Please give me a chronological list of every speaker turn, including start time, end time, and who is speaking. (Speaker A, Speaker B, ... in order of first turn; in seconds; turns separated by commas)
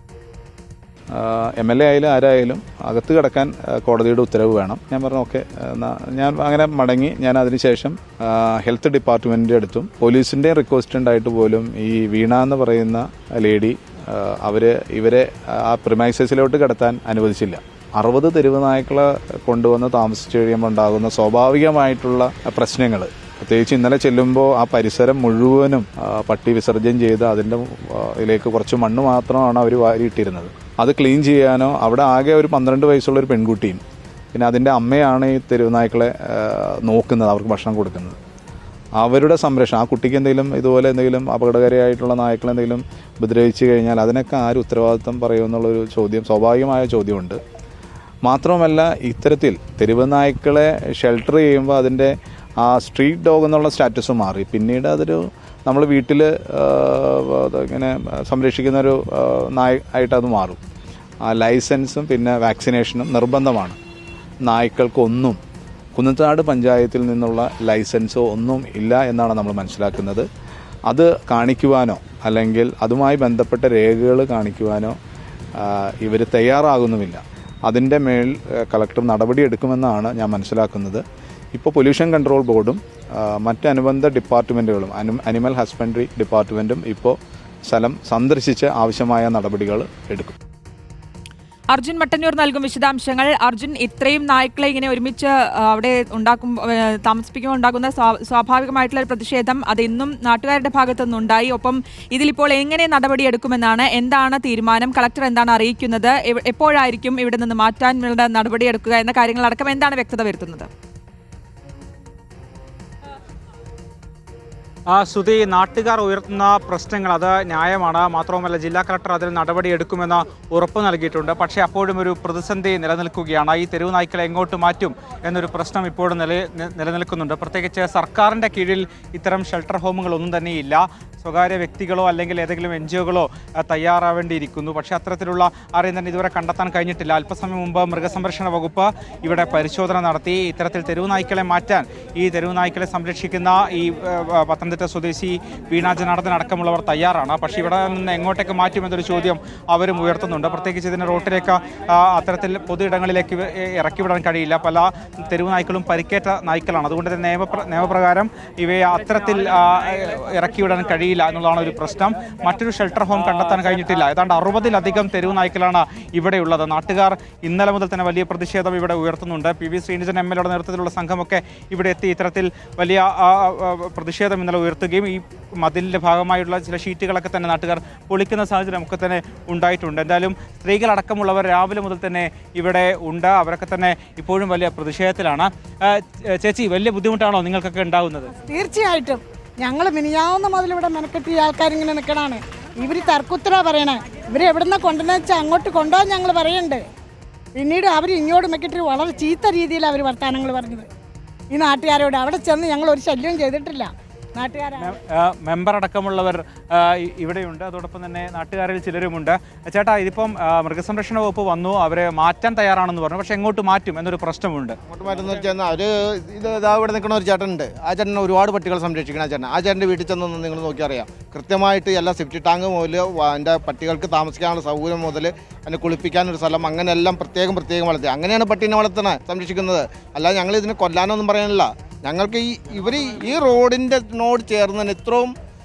Speaker A: 1.1-33.8, Speaker A: 34.3-38.2, Speaker A: 39.0-47.4, Speaker A: 48.2-60.6, Speaker A: 61.2-63.8, Speaker A: 64.4-65.4, Speaker A: 66.0-70.3, Speaker A: 70.9-75.0, Speaker A: 75.5-90.3, Speaker B: 91.7-110.7, Speaker C: 114.9-188.3, Speaker D: 188.4-196.8, Speaker D: 197.5-200.9, Speaker D: 201.5-204.9, Speaker C: 204.8-214.8, Speaker E: 214.9-231.5, Speaker D: 229.5-229.8, Speaker D: 230.3-230.8, Speaker D: 231.5-232.8, Speaker E: 232.1-234.1, Speaker D: 233.4-235.3